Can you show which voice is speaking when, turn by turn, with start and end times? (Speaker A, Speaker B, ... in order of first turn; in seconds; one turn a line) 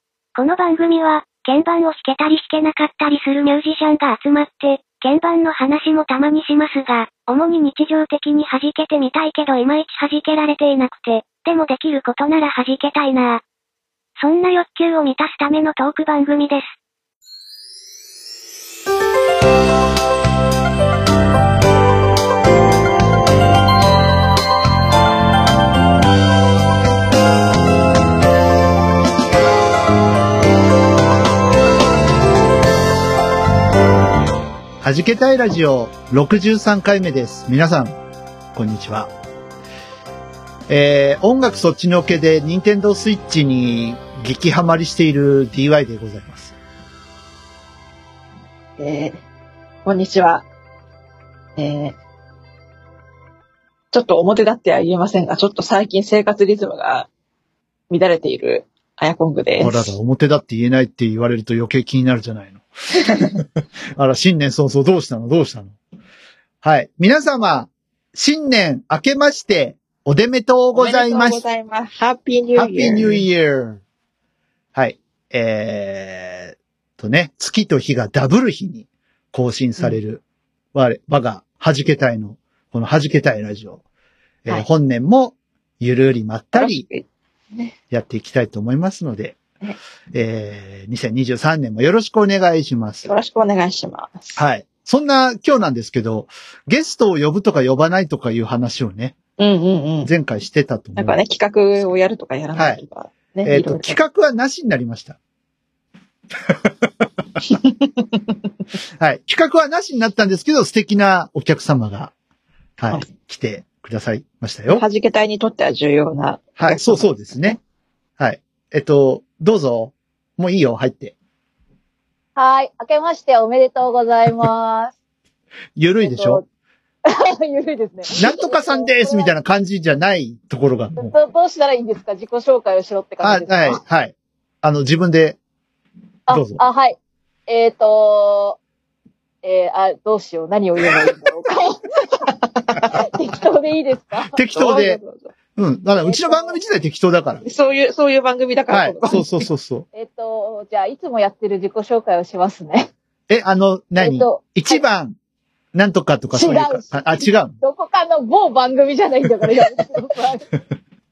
Speaker A: 0.4-13.4
Speaker A: 14.2-16.7
Speaker B: 34.8-38.0
Speaker B: 38.5-39.1
Speaker B: 40.7-46.5
Speaker C: 48.8-49.2
Speaker C: 49.9-50.5
Speaker C: 51.6-52.0
Speaker C: 53.9-57.1
Speaker C: 57.9-60.0
Speaker B: 59.6-63.4
Speaker B: 64.0-65.7
Speaker B: 66.6-71.4
Speaker C: 70.7-73.2
Speaker B: 72.5-73.8
Speaker B: 74.8-80.2
Speaker B: 80.7-83.8
Speaker B: 84.5-86.8
Speaker C: 86.5-87.7
Speaker B: 87.9-89.4
Speaker B: 90.1-93.1
Speaker C: 93.0-94.4
Speaker B: 94.4-99.2
Speaker C: 99.4-100.1
Speaker B: 100.0-101.2
Speaker C: 101.0-104.0
Speaker B: 102.5-102.8
Speaker B: 103.5-105.2
Speaker C: 107.5-107.9
Speaker B: 109.0-112.1
Speaker B: 112.8-114.8
Speaker C: 114.7-117.6
Speaker B: 116.6-117.6
Speaker B: 118.2-121.2
Speaker D: 122.4-124.9
Speaker B: 125.8-126.4
Speaker D: 126.0-126.4
Speaker D: 127.1-129.3
Speaker B: 128.2-131.1
Speaker D: 131.0-133.8
Speaker B: 133.2-135.4
Speaker D: 136.3-138.6
Speaker B: 136.3-136.6
Speaker D: 139.4-141.8
Speaker C: 142.6-142.9
Speaker D: 142.9-144.4
Speaker B: 144.3-145.0
Speaker C: 144.6-145.3
Speaker B: 145.6-147.4
Speaker D: 146.0-146.6
Speaker C: 147.4-149.3
Speaker B: 148.7-149.9
Speaker D: 149.9-152.9
Speaker B: 153.3-155.2
Speaker D: 154.0-154.8
Speaker B: 155.7-157.6
Speaker D: 156.3-160.5